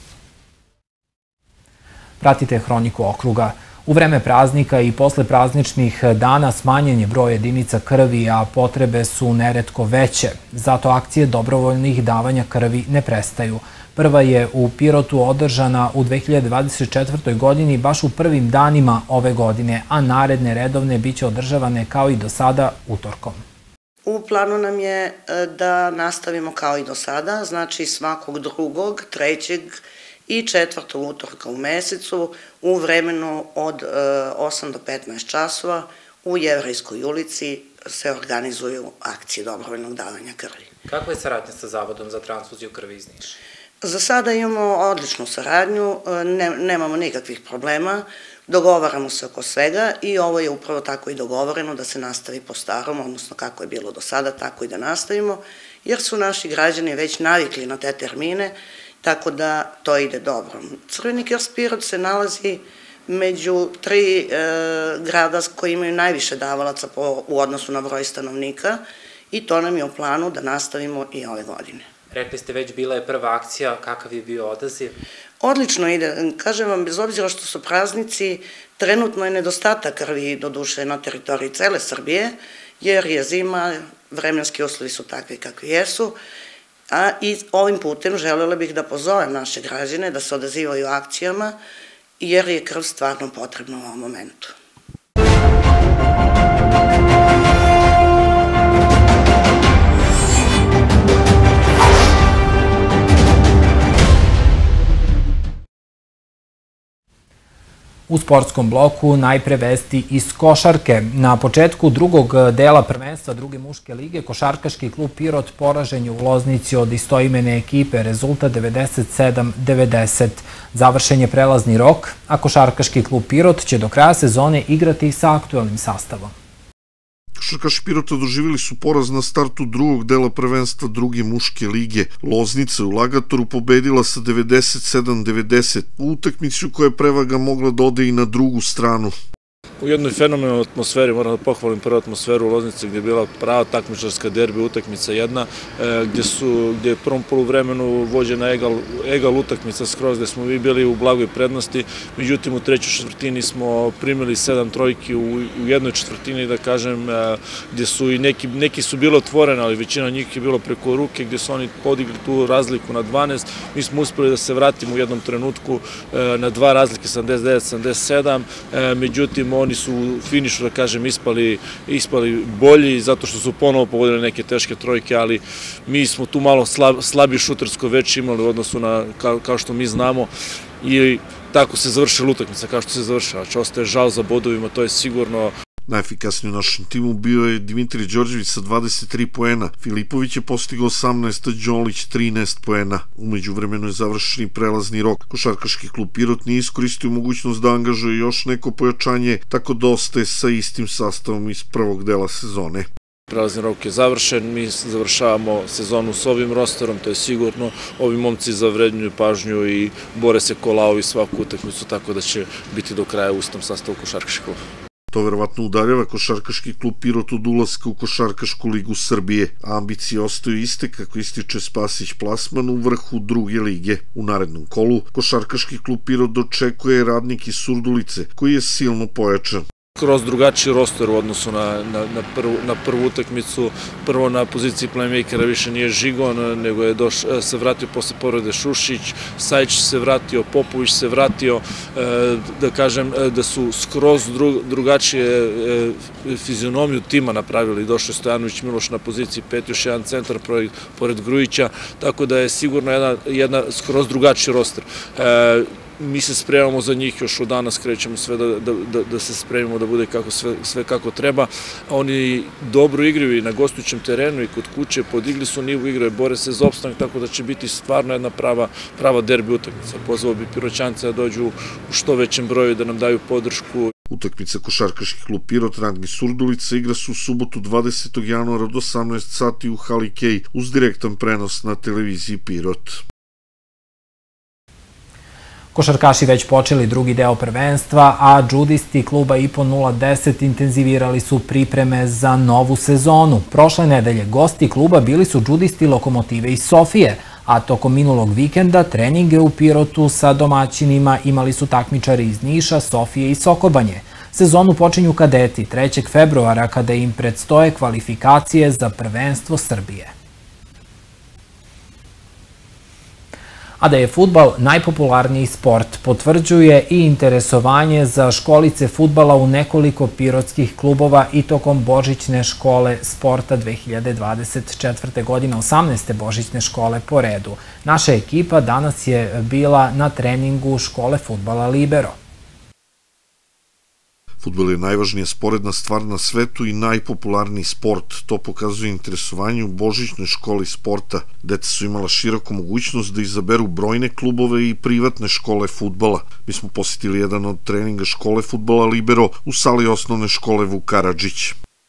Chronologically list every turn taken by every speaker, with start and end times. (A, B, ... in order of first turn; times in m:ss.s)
0:02.2-0:23.4 A
0:24.0-0:40.7 B
0:40.9-0:43.4 A
0:43.8-1:11.8 B
1:12.1-1:14.9 A
1:15.4-1:26.2 B
1:26.9-1:31.6 B
1:32.2-1:34.5 B
1:48.1-2:06.3 A
2:07.4-2:19.1 C
2:19.8-3:00.3 D
3:00.8-3:05.5 D
3:05.9-3:22.9 C
3:23.3-3:34.6 D
3:35.1-3:49.6 C
3:50.0-4:33.9 D
4:34.1-4:43.0 C
4:45.7-5:10.1 A
5:13.8-5:32.1 A
5:34.4-5:51.6 C